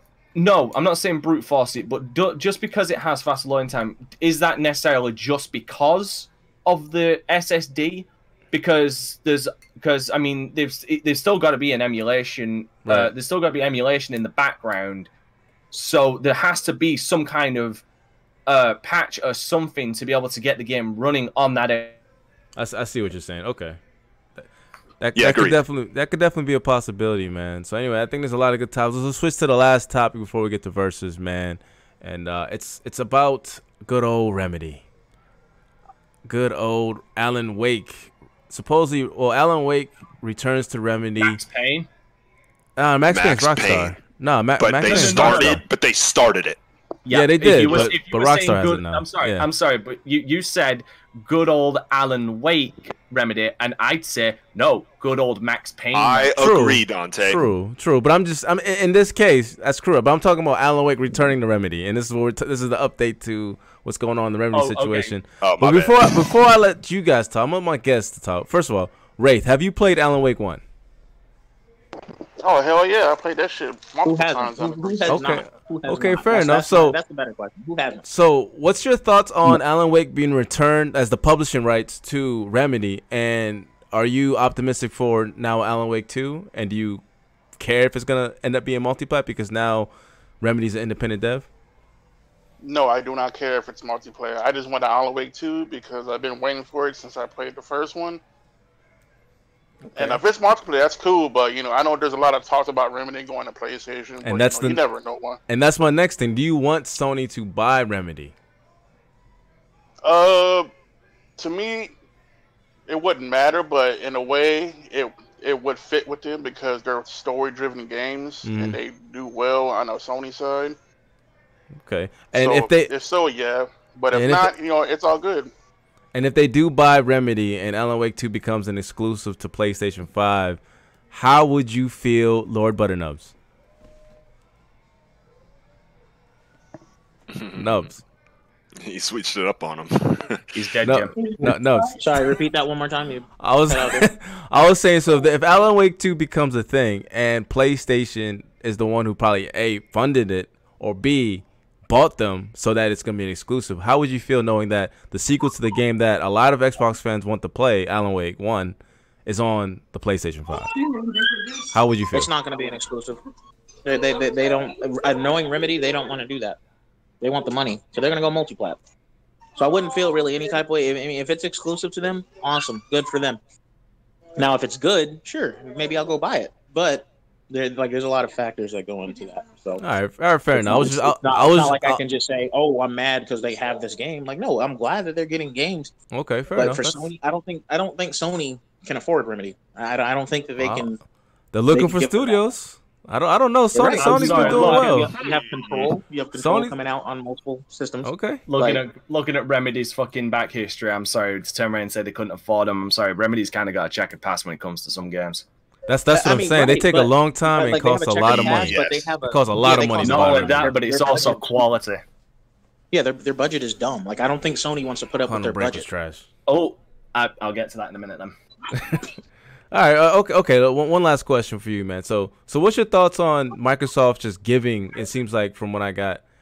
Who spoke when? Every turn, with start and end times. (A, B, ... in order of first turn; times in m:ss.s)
0:00.4-0:15.1 A
0:15.7-0:17.8 A
0:18.5-0:22.0 A
0:22.6-0:23.8 B
0:25.0-0:34.8 B
0:25.2-0:25.6 C
0:36.3-0:41.4 B
0:41.2-0:41.9 A
0:42.8-0:45.6 B
0:43.1-0:44.0 C
0:44.6-0:46.6 C
0:44.9-0:45.6 A
0:47.1-0:56.3 A
0:47.1-0:49.5 B
0:55.9-0:57.4 C
0:56.4-1:10.6 B
1:04.5-1:05.1 A
1:05.4-1:06.1 C
1:12.4-1:15.5 D
1:14.0-1:18.0 E
1:15.1-1:17.0 B
1:18.1-1:27.0 B
1:27.6-1:29.9 B
1:30.4-1:31.5 B
1:32.6-1:38.2 D
1:39.9-1:40.2 B
1:40.0-1:45.4 D
1:44.2-1:44.8 B
1:45.5-1:48.3 B
1:50.0-1:50.7 D
1:51.4-1:51.9 D
1:52.9-2:00.8 D
1:58.4-1:58.8 B
2:01.9-2:02.9 B
2:02.3-2:05.5 D
2:04.1-2:04.5 B
2:06.1-2:10.6 B
2:11.1-2:13.3 B
2:17.3-2:17.9 C
2:17.6-2:18.0 B
2:18.8-2:20.5 C
2:20.5-2:21.2 A
2:20.8-2:22.0 B
2:22.0-2:24.1 E
2:23.4-2:40.7 B
2:41.7-2:42.3 B
2:42.1-2:43.2 E
2:43.8-2:46.6 E
2:47.2-2:48.8 E
2:49.6-2:53.4 E
2:54.4-2:59.8 E
2:59.8-3:02.0 B
3:00.5-3:05.9 E
3:06.1-3:07.1 B
3:06.6-3:11.0 E
3:10.6-3:10.9 B
3:11.5-3:15.1 B
3:11.7-3:12.4 E
3:13.7-3:18.8 E
3:14.0-3:15.0 A
3:15.2-3:15.9 C
3:16.3-3:16.7 B
3:18.0-3:18.4 B
3:18.5-3:25.4 A
3:25.9-3:30.8 B
3:26.1-3:31.7 E
3:28.3-3:29.1 C
3:30.0-3:32.0 A
3:32.9-3:35.9 E
3:35.3-3:36.3 B
3:36.5-3:38.4 A
3:38.8-3:39.1 B
3:39.7-3:46.2 B